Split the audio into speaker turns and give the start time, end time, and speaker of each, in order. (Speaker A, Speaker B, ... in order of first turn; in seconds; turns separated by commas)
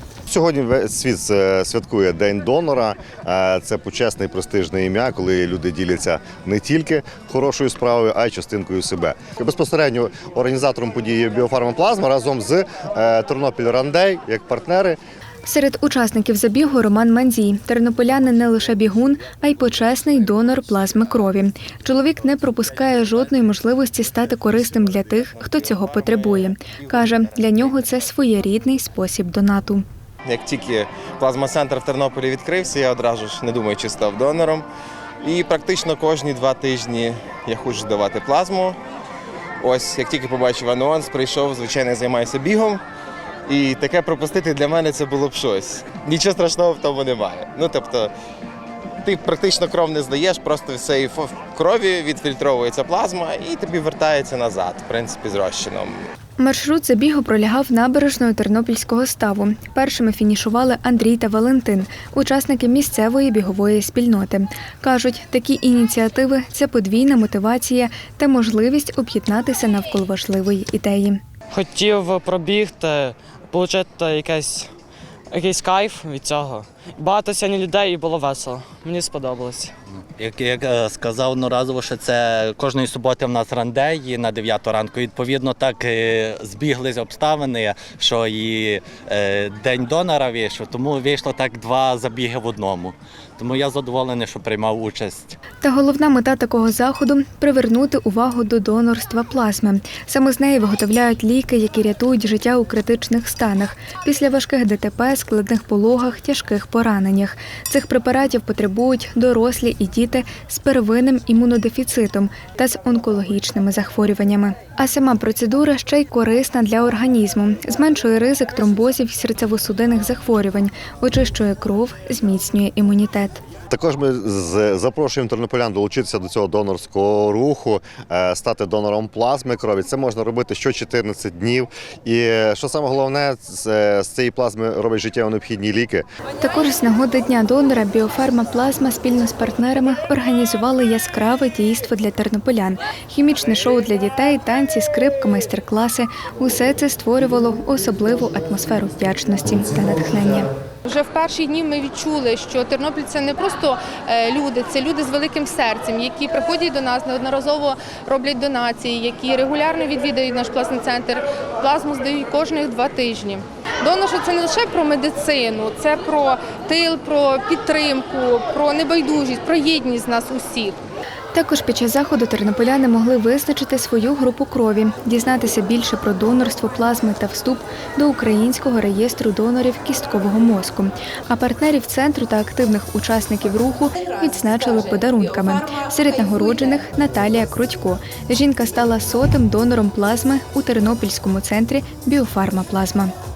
Speaker A: 0.3-15.0, Speaker B: 15.4-29.8, Speaker C: 24.4-28.1, Speaker C: 30.2-34.7, Speaker C: 35.2-38.8, Speaker C: 39.6-42.8, Speaker C: 43.5-48.1, Speaker C: 49.0-56.0, Speaker B: 56.4-71.2, Speaker D: 71.5-74.7, Speaker D: 75.3-79.7, Speaker E: 80.2-95.4, Speaker B: 95.6-123.4, Speaker A: 123.7-136.0, Speaker B: 136.4-150.5, Speaker F: 150.8-170.8, Speaker B: 171.3-193.1